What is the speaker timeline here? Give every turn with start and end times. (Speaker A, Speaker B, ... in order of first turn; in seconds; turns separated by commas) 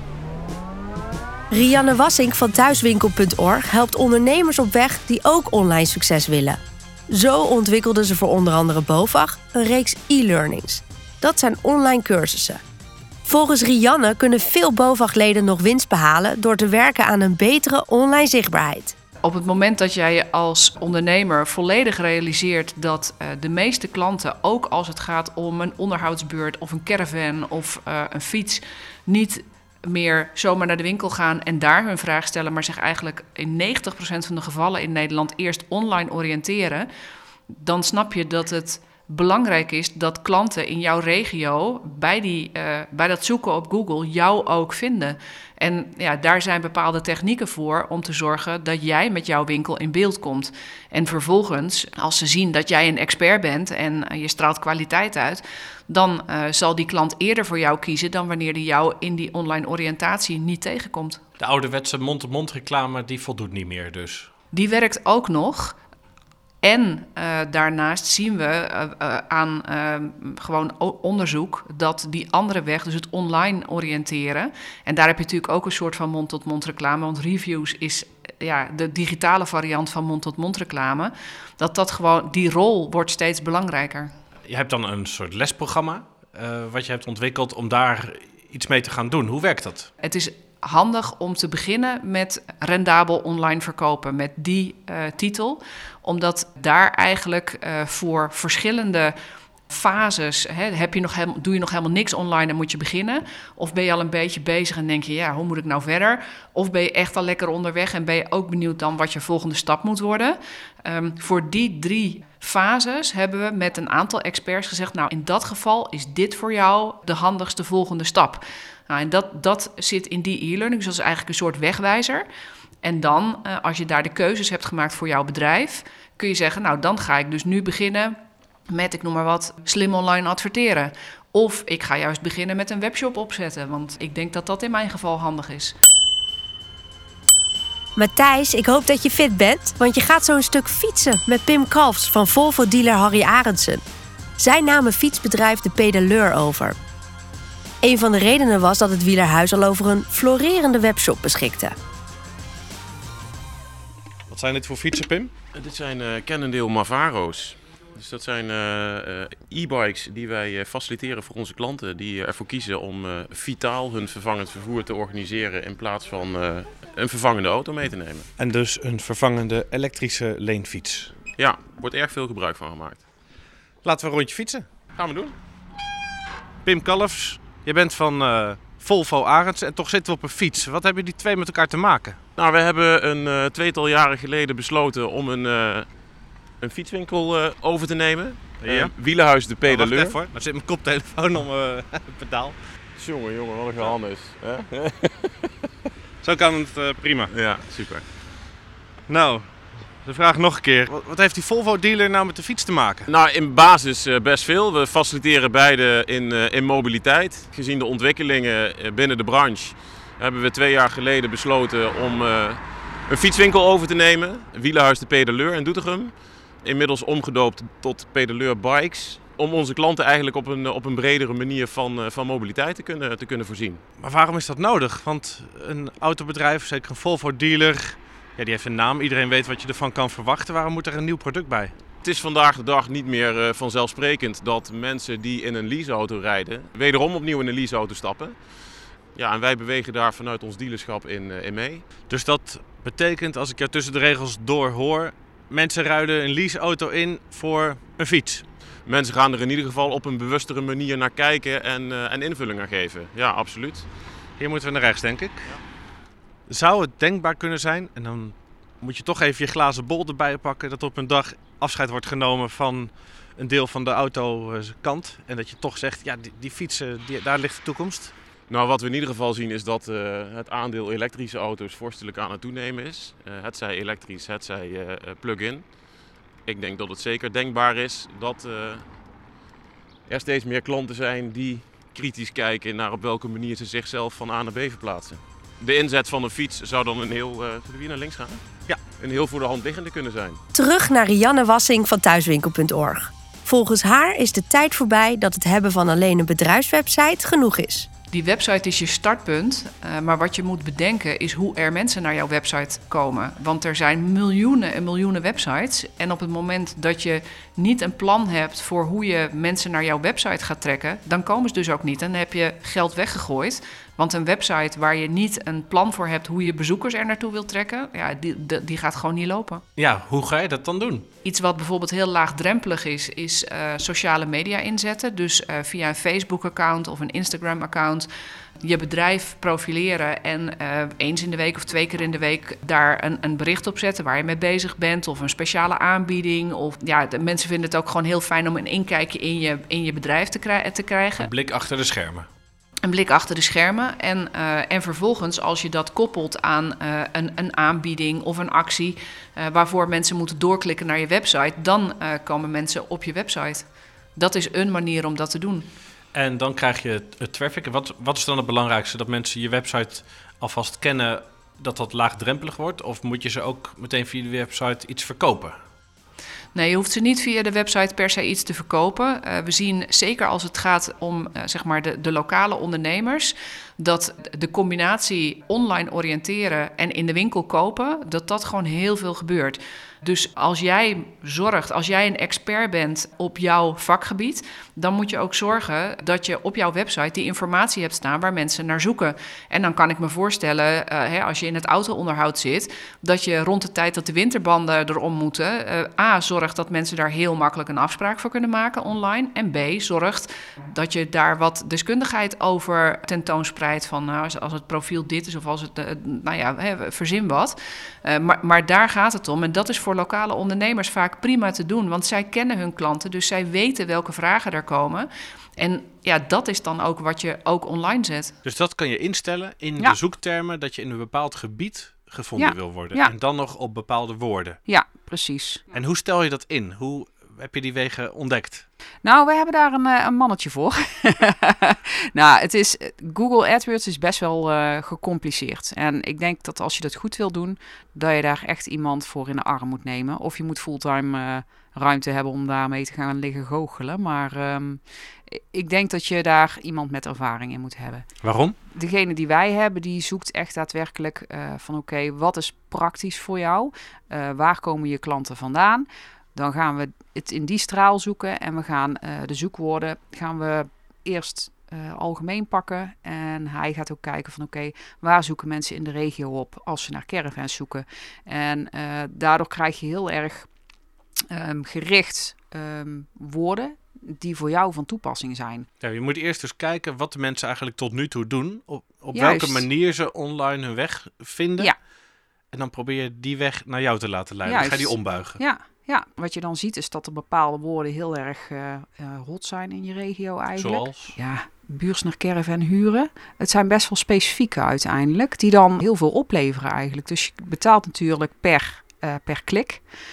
Speaker A: 1.5-12.6, Speaker A: 13.2-18.9, Speaker B: 19.2-36.9, Speaker B: 37.5-61.2, Speaker C: 61.4-64.3, Speaker B: 64.5-65.8, Speaker B: 66.6-84.1, Speaker C: 84.4-89.9, Speaker B: 90.0-99.1, Speaker B: 99.7-122.2, Speaker B: 122.8-128.2, Speaker B: 128.7-135.7, Speaker A: 137.9-143.8, Speaker A: 144.4-146.8, Speaker A: 147.8-151.8, Speaker C: 154.3-155.3, Speaker D: 155.5-168.3, Speaker C: 168.4-171.1, Speaker D: 171.3-173.0, Speaker C: 173.8-174.7, Speaker D: 174.9-175.3, Speaker C: 176.6-182.2, Speaker D: 182.3-185.9, Speaker D: 186.6-190.2, Speaker C: 188.6-188.9, Speaker C: 189.6-192.6, Speaker D: 193.0-195.5, Speaker C: 196.2-197.3, Speaker D: 197.3-198.0, Speaker C: 199.1-203.1, Speaker D: 203.1-223.8, Speaker C: 224.0-231.7, Speaker D: 232.0-238.4, Speaker D: 239.1-241.8, Speaker C: 242.1-248.4, Speaker D: 248.8-253.9, Speaker C: 254.4-255.5, Speaker C: 256.5-268.1, Speaker D: 268.5-275.7, Speaker D: 276.4-278.8, Speaker D: 280.1-288.4, Speaker D: 289.0-290.4, Speaker A: 290.5-297.9, Speaker B: 298.1-319.6, Speaker C: 319.8-321.1, Speaker B: 321.2-328.1, Speaker B: 328.6-341.3, Speaker C: 341.2-342.3, Speaker B: 342.8-355.7, Speaker C: 356.1-365.6, Speaker B: 366.5-418.4, Speaker C: 418.4-424.6, Speaker E: 422.4-423.1, Speaker E: 424.6-425.6, Speaker C: 425.7-428.6, Speaker E: 429.0-448.2, Speaker C: 448.2-448.6, Speaker E: 448.7-470.5, Speaker E: 471.3-475.7, Speaker C: 475.8-481.8, Speaker E: 479.1-479.6, Speaker C: 482.5-485.4, Speaker E: 484.4-499.8, Speaker C: 490.6-491.1